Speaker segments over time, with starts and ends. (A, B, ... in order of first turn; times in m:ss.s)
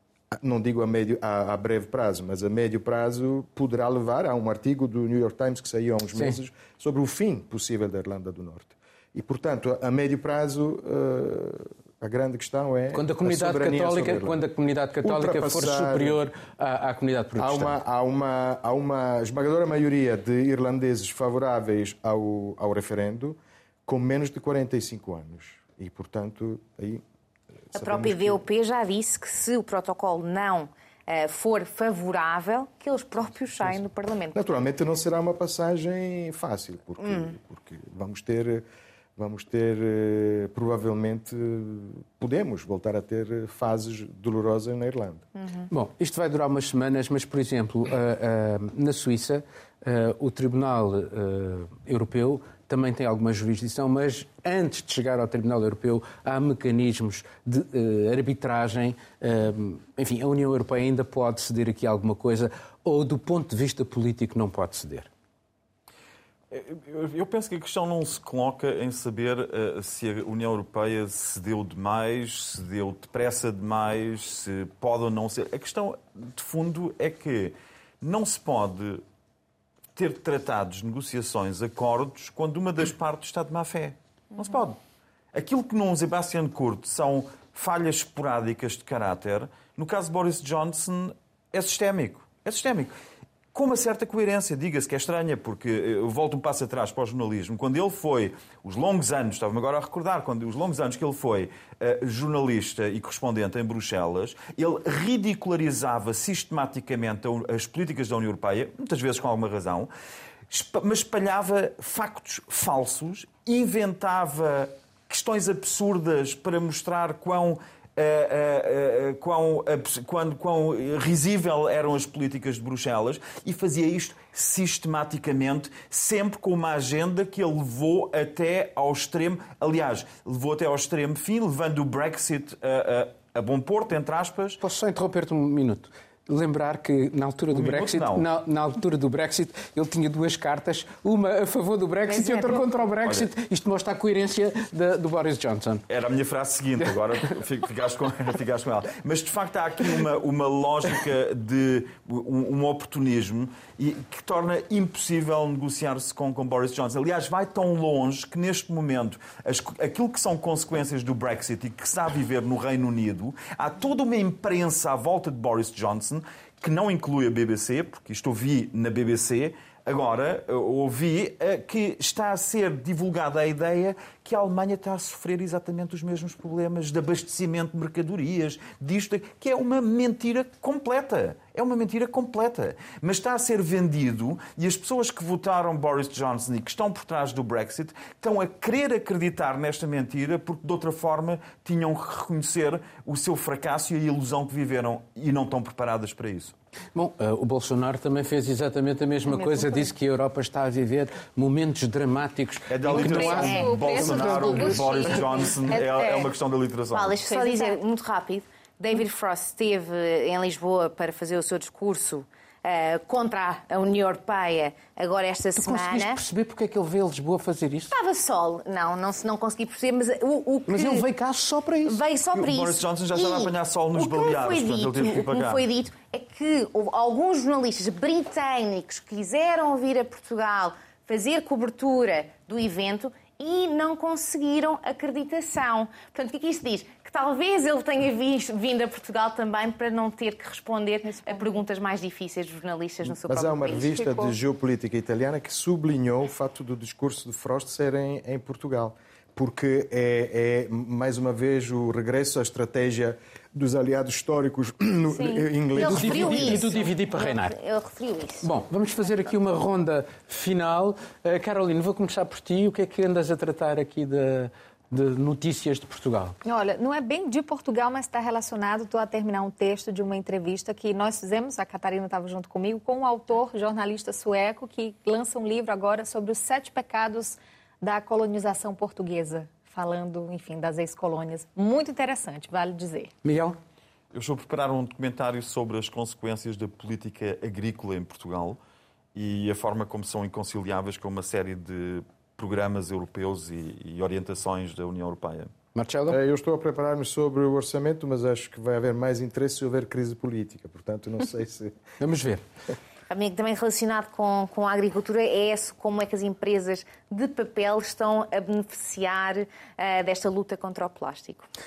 0:00.4-0:14.4 A
0:12.9-0:17.8 B
0:15.0-0:16.2 A
0:17.4-0:27.0 A
0:27.7-0:28.4 A
0:27.7-0:34.5 C
0:34.3-0:38.6 A
0:37.0-0:37.3 C
0:39.2-0:45.2 A
0:45.4-0:45.6 C
0:45.7-1:05.1 B
1:06.5-1:19.0 D
1:20.0-1:24.8 D
1:25.3-1:32.9 D
1:33.5-1:49.9 D
1:50.5-2:14.6 D
2:14.6-2:25.8 B
2:17.5-2:18.2 D
2:25.9-3:16.5 D
3:16.9-3:25.0 B
3:22.7-3:27.2 D
3:22.8-3:26.3 E
3:23.1-3:23.8 C
3:26.9-3:36.2 C
3:27.3-3:27.8 E
3:35.6-3:37.9 B
3:37.9-3:41.0 C
3:40.7-3:42.0 B
3:41.8-4:04.3 C
3:42.3-3:45.6 D
4:01.2-4:01.5 E
4:03.0-4:16.7 A
4:15.8-4:17.6 B
4:15.8-4:18.5 C
4:18.4-4:26.4 B
4:26.4-4:43.1 E
4:43.2-4:43.6 B
4:44.1-4:48.6 D
4:49.1-4:55.5 D
4:55.7-4:56.2 B
4:56.1-5:01.8 A
5:02.0-5:02.4 B
5:03.1-5:11.5 C